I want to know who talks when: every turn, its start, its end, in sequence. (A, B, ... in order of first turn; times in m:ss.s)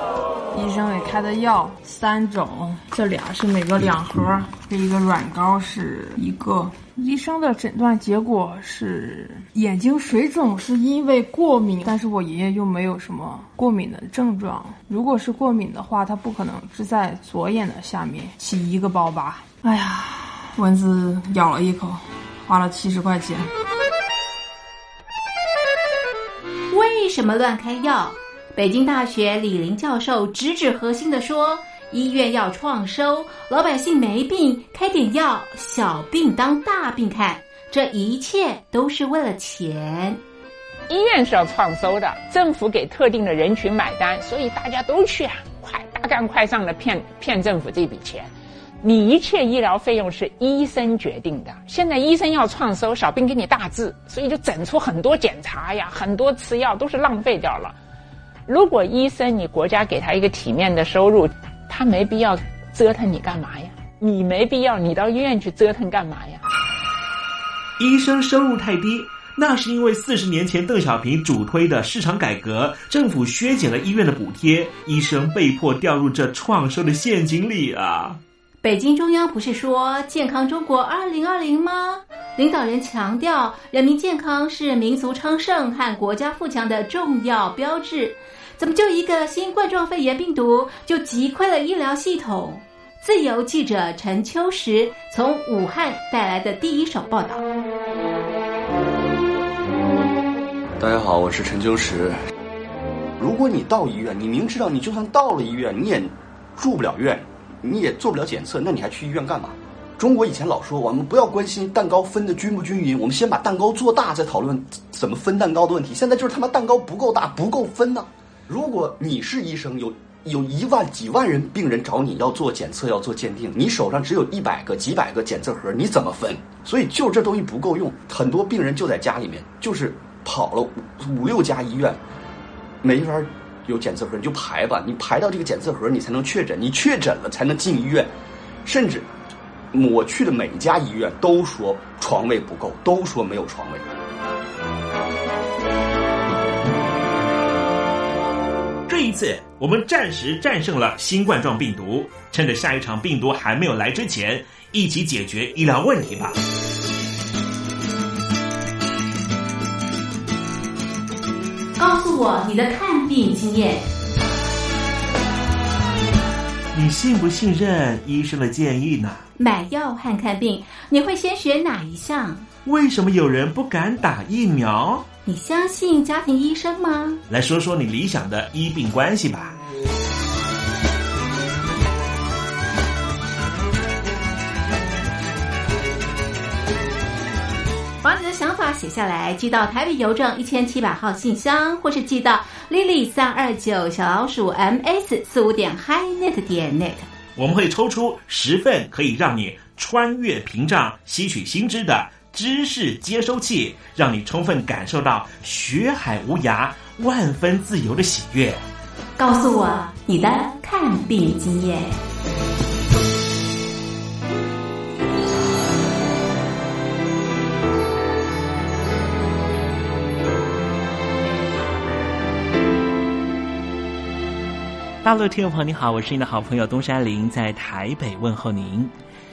0:00.5-0:23.5 A
0:26.7-0:40.2 B
0:40.9-0:48.3 C
0:48.8-0:57.8 C
0:58.5-1:06.4 C
1:07.8-1:18.2 D
1:18.6-1:37.4 B
1:40.8-1:42.2 E
1:43.2-2:12.0 E
2:12.8-2:18.1 E
2:18.6-2:19.1 E
2:19.7-2:23.8 E
2:28.9-2:36.3 D
2:41.8-2:43.8 B
2:46.7-2:49.2 D
2:49.4-2:52.4 B
2:52.6-2:55.1 D
2:55.2-2:57.2 B
2:57.3-2:59.6 D
3:08.0-3:17.1 B
3:17.4-3:28.6 D
3:29.2-3:31.9 B
3:45.0-3:48.9 D